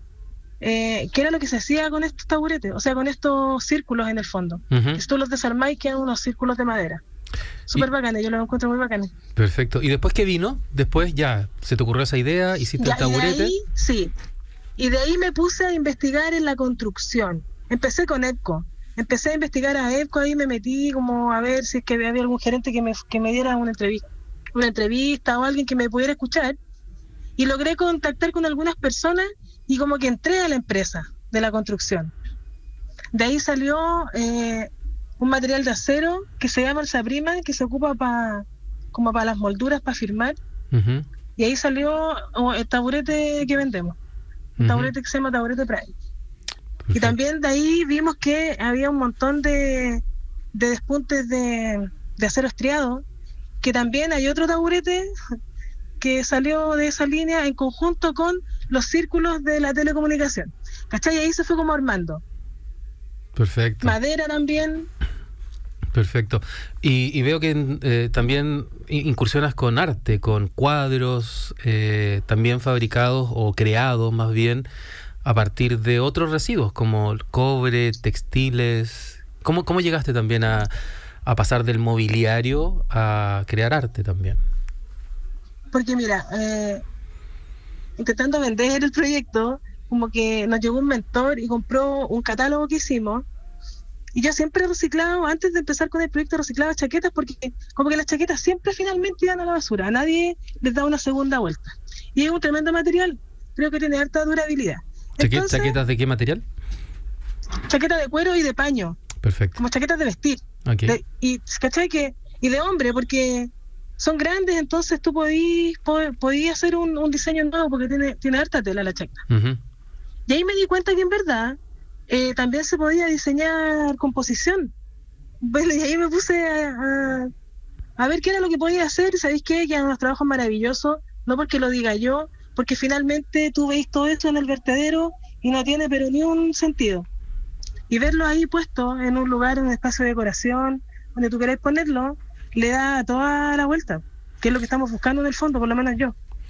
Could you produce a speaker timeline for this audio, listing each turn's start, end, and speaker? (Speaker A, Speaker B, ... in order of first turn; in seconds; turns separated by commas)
Speaker A: 0.6-7.0, Speaker B: 4.7-5.0, Speaker A: 7.7-9.1, Speaker B: 9.3-13.5, Speaker A: 12.8-14.1, Speaker A: 14.8-26.6, Speaker A: 27.4-32.1, Speaker A: 33.1-40.4, Speaker B: 40.7-41.0, Speaker A: 41.4-44.0, Speaker B: 44.6-44.9, Speaker A: 44.6-45.9, Speaker B: 46.9-47.1, Speaker A: 46.9-50.0, Speaker A: 50.5-53.0, Speaker A: 53.6-55.1, Speaker A: 56.0-62.2, Speaker B: 63.4-64.0, Speaker A: 63.8-64.9, Speaker B: 65.9-74.7, Speaker B: 75.2-80.7, Speaker B: 81.2-84.4, Speaker A: 85.7-86.8, Speaker A: 88.0-93.2, Speaker A: 94.1-105.8, Speaker B: 105.2-106.4, Speaker A: 107.7-109.0, Speaker B: 109.2-109.6, Speaker A: 109.6-119.2, Speaker B: 110.7-111.0, Speaker B: 119.3-119.6, Speaker A: 120.3-121.6, Speaker A: 122.1-124.7, Speaker A: 125.4-127.3, Speaker A: 128.0-137.1, Speaker A: 137.9-146.1